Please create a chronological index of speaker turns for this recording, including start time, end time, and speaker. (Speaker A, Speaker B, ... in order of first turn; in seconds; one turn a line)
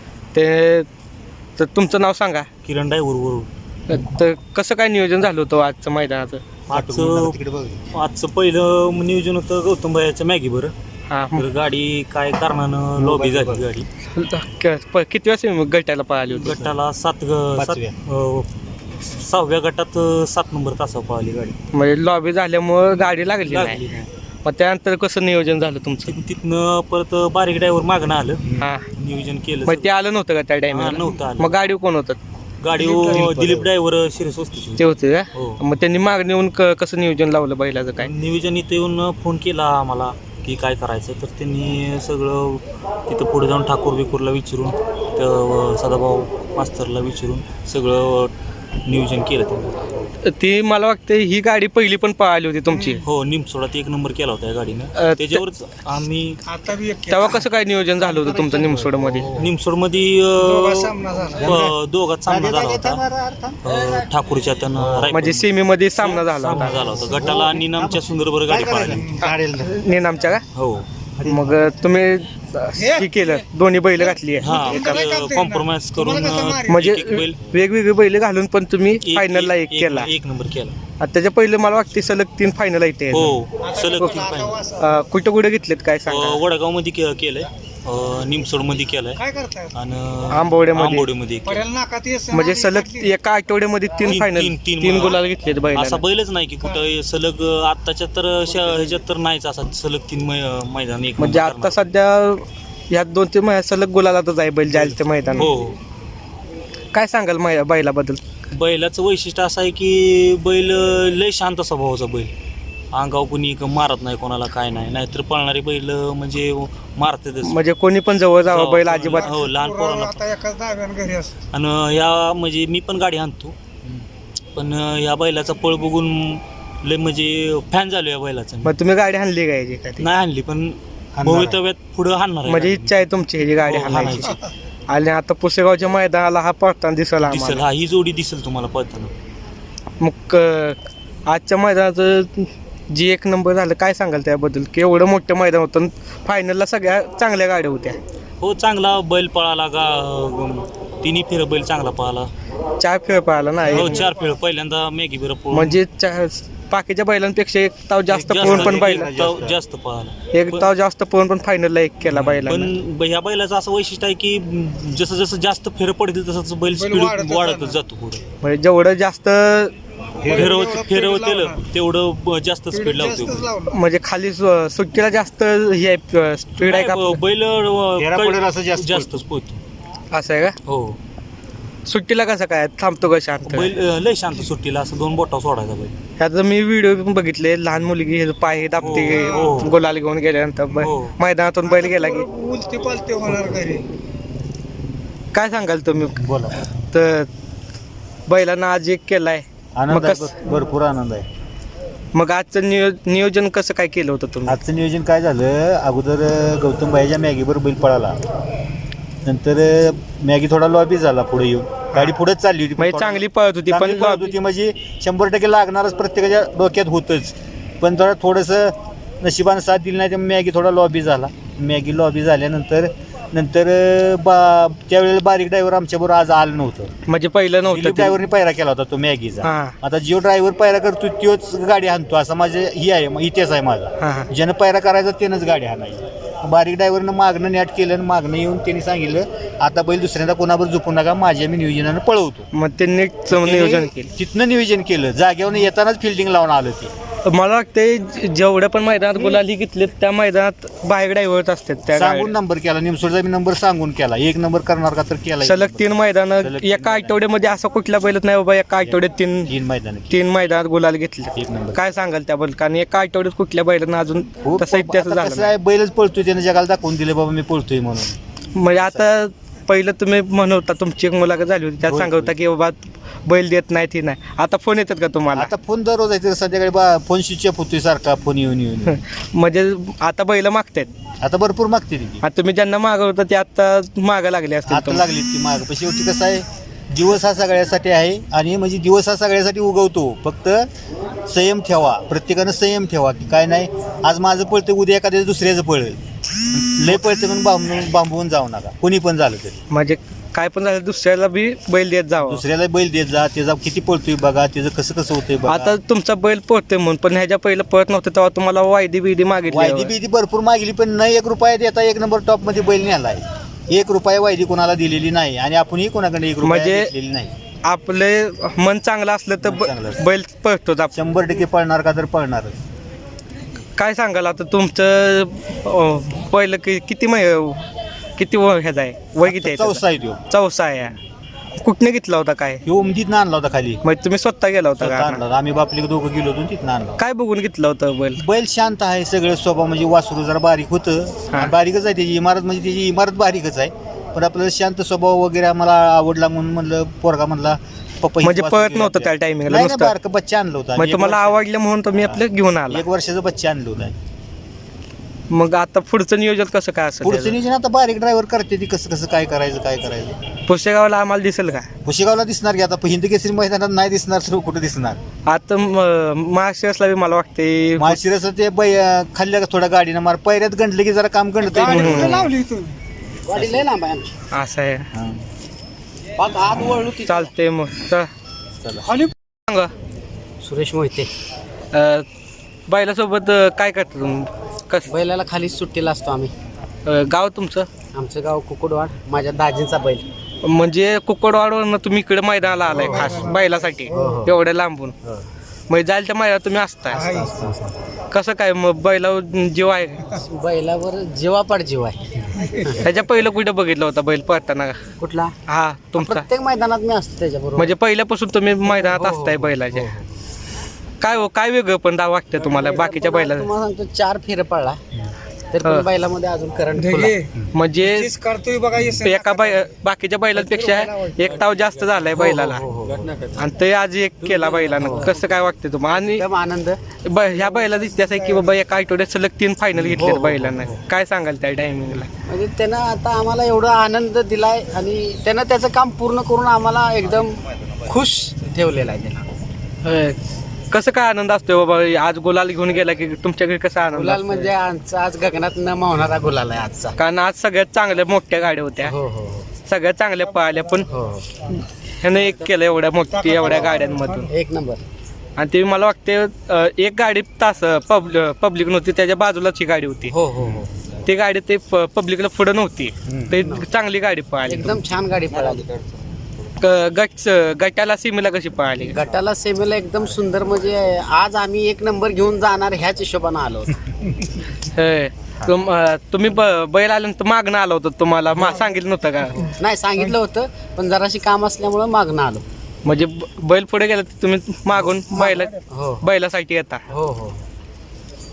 Speaker A: 0.3-0.9
Speaker A: 1.6-2.5
Speaker B: 2.6-3.5
Speaker A: 3.9-6.4
Speaker C: 6.7-7.8
Speaker B: 6.7-7.4
Speaker B: 7.9-10.8
Speaker A: 11.1-11.4
Speaker B: 11.3-13.9
Speaker C: 13.0-13.7
Speaker A: 14.1-16.6
Speaker B: 16.3-21.6
Speaker C: 16.5-16.7
Speaker C: 17.6-18.0
Speaker A: 21.7-23.8
Speaker B: 23.4-24.1
Speaker A: 24.4-26.1
Speaker B: 26.1-29.9
Speaker A: 28.6-28.9
Speaker A: 29.6-32.2
Speaker B: 30.7-31.6
Speaker B: 32.6-35.6
Speaker C: 32.8-33.7
Speaker A: 32.8-33.2
Speaker A: 34.8-38.1
Speaker B: 38.0-48.3
Speaker B: 48.9-49.8
Speaker A: 50.2-53.0
Speaker D: 52.7-53.0
Speaker B: 53.0-56.4
Speaker A: 55.0-55.4
Speaker D: 56.5-57.5
Speaker A: 57.1-59.3
Speaker C: 58.1-59.5
Speaker B: 59.3-63.0
Speaker D: 60.4-61.5
Speaker C: 61.4-61.8
Speaker C: 62.3-63.6
Speaker B: 63.6-69.0
Speaker C: 64.8-65.1
Speaker A: 65.1-66.8
Speaker C: 66.7-69.8
Speaker A: 69.3-70.4
Speaker B: 70.5-70.9
Speaker C: 71.2-71.7
Speaker A: 71.2-75.1
Speaker D: 72.8-73.4
Speaker B: 74.4-77.6
Speaker D: 74.5-76.8
Speaker A: 76.7-80.1
Speaker B: 79.0-80.8
Speaker A: 81.0-83.4
Speaker B: 83.1-84.6
Speaker D: 83.6-85.0
Speaker A: 84.0-86.4
Speaker B: 86.1-89.2
Speaker D: 89.2-89.7
Speaker B: 89.7-91.7
Speaker A: 90.3-91.1
Speaker D: 91.5-93.2
Speaker A: 92.3-96.0
Speaker B: 94.0-101.9
Speaker A: 101.2-105.5
Speaker B: 104.7-105.8
Speaker A: 106.9-108.2
Speaker B: 108.5-112.3
Speaker B: 112.9-117.6
Speaker A: 117.4-119.3
Speaker B: 118.4-120.3
Speaker D: 119.1-121.4
Speaker B: 121.5-123.6
Speaker B: 124.5-128.8
Speaker A: 128.6-130.1
Speaker B: 130.0-133.1
Speaker C: 131.2-131.6
Speaker A: 132.5-137.7
Speaker B: 133.6-134.4
Speaker B: 137.2-139.1
Speaker A: 140.0-148.0
Speaker B: 148.4-152.3
Speaker A: 152.8-154.1
Speaker B: 153.7-155.8
Speaker A: 155.5-159.1
Speaker B: 158.1-160.7
Speaker C: 158.2-159.6
Speaker A: 160.3-162.7
Speaker B: 162.1-168.2
Speaker D: 166.7-167.8
Speaker A: 168.4-169.7
Speaker C: 170.2-170.6
Speaker D: 170.2-171.7
Speaker B: 170.3-173.5
Speaker D: 172.7-173.8
Speaker A: 173.7-177.2
Speaker B: 176.6-179.6
Speaker C: 178.0-179.2
Speaker A: 180.1-180.6
Speaker B: 180.7-181.0
Speaker A: 181.8-183.7
Speaker B: 183.5-185.9
Speaker A: 186.2-192.3
Speaker B: 188.8-189.8
Speaker D: 189.1-189.6
Speaker B: 190.8-191.2
Speaker D: 191.6-193.9
Speaker A: 195.3-196.2
Speaker C: 196.1-196.6
Speaker A: 196.9-197.3
Speaker A: 198.3-200.4
Speaker C: 199.8-201.3
Speaker A: 202.1-204.6
Speaker C: 204.5-208.2
Speaker C: 209.2-226.9
Speaker A: 212.8-214.3
Speaker A: 227.1-228.2
Speaker C: 227.7-242.5
Speaker A: 229.4-229.8
Speaker A: 234.0-234.3
Speaker A: 242.5-244.1
Speaker C: 243.3-246.9
Speaker A: 247.2-252.3
Speaker C: 251.9-257.2
Speaker A: 255.4-259.5
Speaker C: 258.8-260.2
Speaker A: 260.1-265.5
Speaker C: 261.3-261.8
Speaker C: 264.4-268.2
Speaker A: 268.6-275.5
Speaker C: 268.8-269.1
Speaker C: 271.8-272.4
Speaker C: 275.3-279.0
Speaker A: 278.9-280.9
Speaker C: 281.2-282.2
Speaker A: 282.2-285.0
Speaker C: 284.7-290.7
Speaker C: 291.3-296.0
Speaker C: 296.5-299.6
Speaker A: 299.7-302.4
Speaker C: 302.2-305.8
Speaker A: 305.5-309.9
Speaker C: 309.5-317.3
Speaker A: 316.4-316.9
Speaker A: 317.6-321.0
Speaker C: 319.4-320.0
Speaker C: 320.9-322.6
Speaker A: 323.8-331.0
Speaker C: 329.2-330.2
Speaker A: 331.6-332.6
Speaker C: 332.6-333.8
Speaker A: 333.8-335.2
Speaker C: 334.8-337.0
Speaker A: 337.0-338.2
Speaker C: 338.2-351.4
Speaker A: 348.2-349.9
Speaker A: 350.8-352.9
Speaker C: 352.0-354.0
Speaker A: 355.3-357.4
Speaker C: 357.0-360.2
Speaker A: 360.5-361.7
Speaker C: 361.9-365.0
Speaker A: 365.3-368.0
Speaker C: 367.8-372.3
Speaker D: 371.5-372.8
Speaker A: 371.7-372.2
Speaker E: 373.3-374.1
Speaker C: 373.4-373.6
Speaker A: 374.3-374.9
Speaker C: 374.9-375.2
Speaker E: 376.2-377.2
Speaker A: 377.0-378.1
Speaker C: 378.6-378.9
Speaker D: 378.9-379.1
Speaker E: 380.4-381.1
Speaker A: 381.7-382.1
Speaker A: 382.7-384.9
Speaker E: 384.9-386.3
Speaker A: 386.9-387.7
Speaker E: 387.9-390.1
Speaker A: 390.4-394.9
Speaker D: 392.7-394.2
Speaker E: 392.7-393.1
Speaker E: 393.9-394.4
Speaker A: 395.7-397.1
Speaker D: 396.9-397.4
Speaker E: 396.9-397.8
Speaker A: 398.1-400.2
Speaker E: 400.1-402.9
Speaker A: 402.8-404.8
Speaker E: 405.0-405.4
Speaker A: 405.5-406.3
Speaker E: 405.9-407.7
Speaker A: 407.6-409.9
Speaker E: 408.7-410.1
Speaker A: 411.0-413.5
Speaker E: 412.4-414.8
Speaker E: 415.5-417.2
Speaker D: 416.8-419.7
Speaker A: 417.5-418.1
Speaker A: 419.0-422.7
Speaker D: 420.3-421.5
Speaker B: 421.3-422.1
Speaker E: 422.1-423.4
Speaker B: 422.9-423.4
Speaker A: 423.4-426.3
Speaker B: 424.2-425.1
Speaker E: 424.8-425.1
Speaker E: 426.1-426.8
Speaker A: 427.1-432.1
Speaker D: 427.3-428.6
Speaker E: 429.9-430.8
Speaker E: 432.3-439.3
Speaker A: 439.8-440.2
Speaker A: 440.7-444.5
Speaker E: 443.9-447.0
Speaker A: 447.0-448.9
Speaker E: 448.8-449.5
Speaker A: 449.6-450.9
Speaker D: 450.3-450.9
Speaker E: 450.9-451.3
Speaker A: 451.5-454.3
Speaker D: 453.1-454.3
Speaker E: 454.3-454.8
Speaker A: 455.4-460.2
Speaker E: 460.1-460.9
Speaker A: 461.0-464.8
Speaker E: 463.3-463.7
Speaker E: 464.5-465.7
Speaker B: 465.3-465.9
Speaker A: 466.6-469.0
Speaker E: 468.9-473.8
Speaker A: 474.6-479.5
Speaker D: 478.4-478.7
Speaker E: 479.6-482.4
Speaker A: 482.9-486.9
Speaker E: 485.2-486.1
Speaker E: 486.9-487.4